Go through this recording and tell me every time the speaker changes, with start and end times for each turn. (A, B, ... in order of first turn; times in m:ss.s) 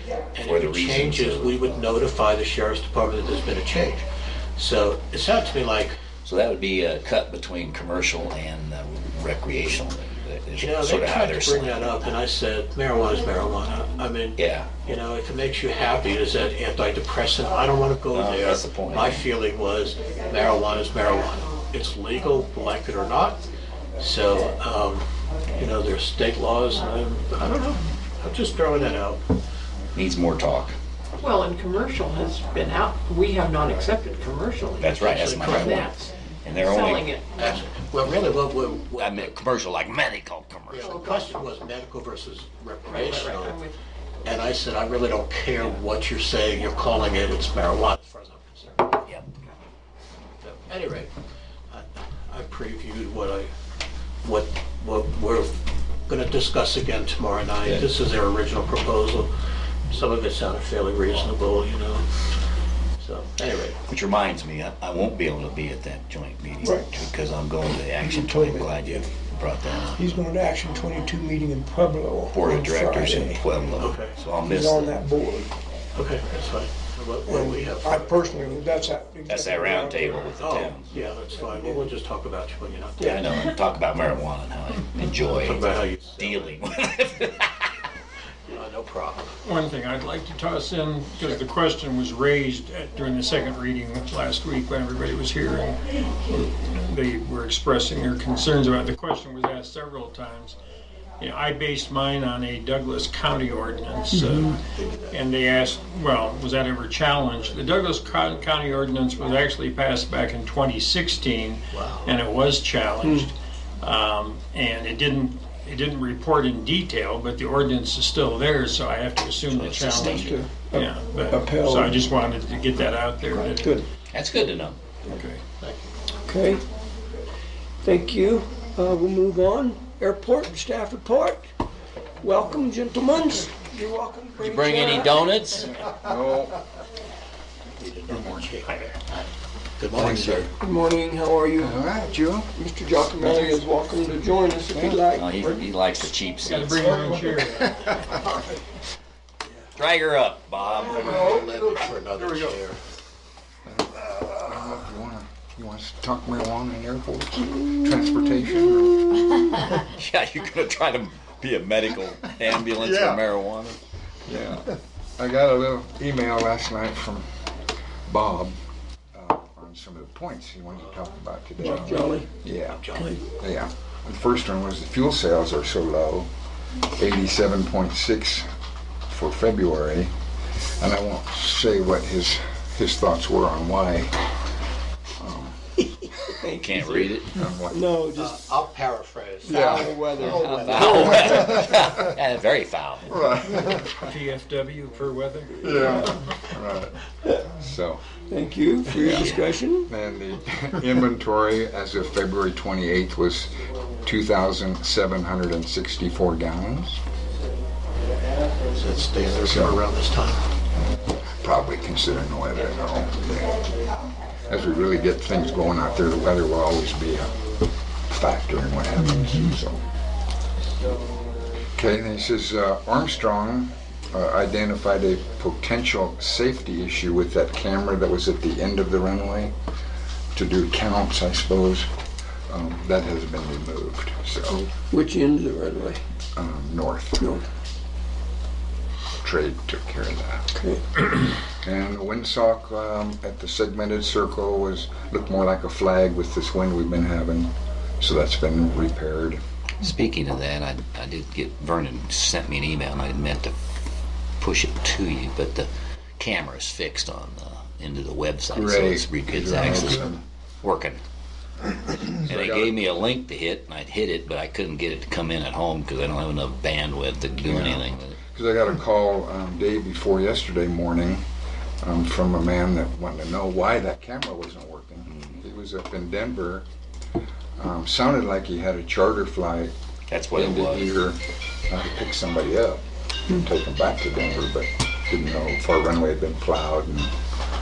0:00.3-0:04.0 A
0:00.4-0:01.7 B
0:04.6-0:06.0 A
0:06.2-0:12.0 B
0:10.6-0:23.4 A
0:14.4-0:14.7 B
0:18.1-0:19.3 B
0:24.0-0:25.0 A
0:25.6-0:29.2 A
0:29.9-0:30.7 B
0:31.2-0:37.3 C
0:34.8-0:37.1 B
0:35.0-0:35.9 A
0:37.4-0:39.3 A
0:39.0-0:40.9 B
0:40.7-0:43.6 A
0:40.8-0:41.1 C
0:42.9-0:43.7 C
0:44.2-0:49.0 A
0:50.4-0:51.1 A
0:51.7-0:53.5 A
0:54.2-0:59.3 A
0:59.9-1:02.1 A
1:03.0-1:03.8 A
1:03.9-1:10.2 B
1:06.6-1:06.9 D
1:08.0-1:08.6 D
1:09.9-1:13.4 D
1:12.3-1:15.0 B
1:13.8-1:14.2 A
1:14.4-1:15.5 D
1:16.0-1:18.3 A
1:17.3-1:20.2 D
1:19.2-1:20.9 B
1:20.4-1:23.2 A
1:23.0-1:27.7 B
1:25.4-1:26.6 A
1:28.5-1:29.4 A
1:29.4-1:40.6 E
1:41.2-1:44.6 E
1:44.1-1:44.5 D
1:44.8-1:45.1 A
1:45.1-2:03.7 E
1:51.7-1:52.1 A
1:53.0-1:53.3 D
1:59.5-2:00.4 B
2:00.0-2:02.0 D
2:03.4-2:03.8 D
2:04.1-2:04.8 B
2:05.1-2:05.4 E
2:05.6-2:05.9 A
2:06.2-2:06.6 D
2:07.8-2:11.5 D
2:12.2-2:15.3 D
2:14.4-2:15.7 B
2:15.8-2:16.6 F
2:17.8-2:19.0 A
2:18.1-2:18.5 F
2:19.8-2:20.5 A
2:19.9-2:20.5 F
2:20.6-2:21.8 D
2:21.6-2:22.5 F
2:22.5-2:25.6 D
2:24.7-2:25.0 F
2:25.1-2:27.3 B
2:26.4-2:27.7 E
2:29.8-2:31.3 B
2:30.8-2:32.8 A
2:33.7-2:39.2 F
2:39.6-2:43.8 B
2:44.2-2:47.3 F
2:48.1-2:48.6 F
2:49.1-2:56.3 F
2:51.6-2:52.3 D
2:52.7-2:53.2 A
2:57.0-2:58.5 F
2:59.1-3:00.1 F
3:00.8-3:04.2 F
3:05.2-3:05.7 F
3:06.0-3:08.4 D
3:06.5-3:07.4 B
3:07.3-3:07.8 F
3:08.2-3:11.4 A
3:09.4-3:11.6 D
3:09.5-3:09.9 F
3:10.2-3:13.2 B
3:11.2-3:12.0 F
3:13.1-3:13.8 F
3:13.8-3:15.6 E
3:15.6-3:16.1 D
3:15.6-3:18.0 F
3:18.3-3:19.9 D
3:18.9-3:27.0 F
3:19.0-3:19.5 B
3:28.7-3:30.4 A
3:29.4-3:29.8 F
3:31.4-3:33.7 F
3:34.5-3:37.4 F
3:38.1-3:39.8 F
3:41.8-3:49.5 F
3:50.3-3:51.9 F
3:52.5-3:54.7 F
3:54.9-3:56.0 D
3:56.4-3:57.2 F
3:59.2-4:00.4 F
4:00.5-4:00.8 D
4:01.6-4:09.4 F
4:09.8-4:13.5 B
4:14.4-4:15.7 B
4:16.2-4:21.0 B
4:18.5-4:20.2 F
4:21.9-4:22.8 F
4:22.2-4:28.2 B
4:27.4-4:31.2 F
4:31.8-4:36.6 F
4:35.0-4:35.4 B
4:37.6-4:39.7 F
4:40.1-4:41.0 B
4:40.3-4:47.1 F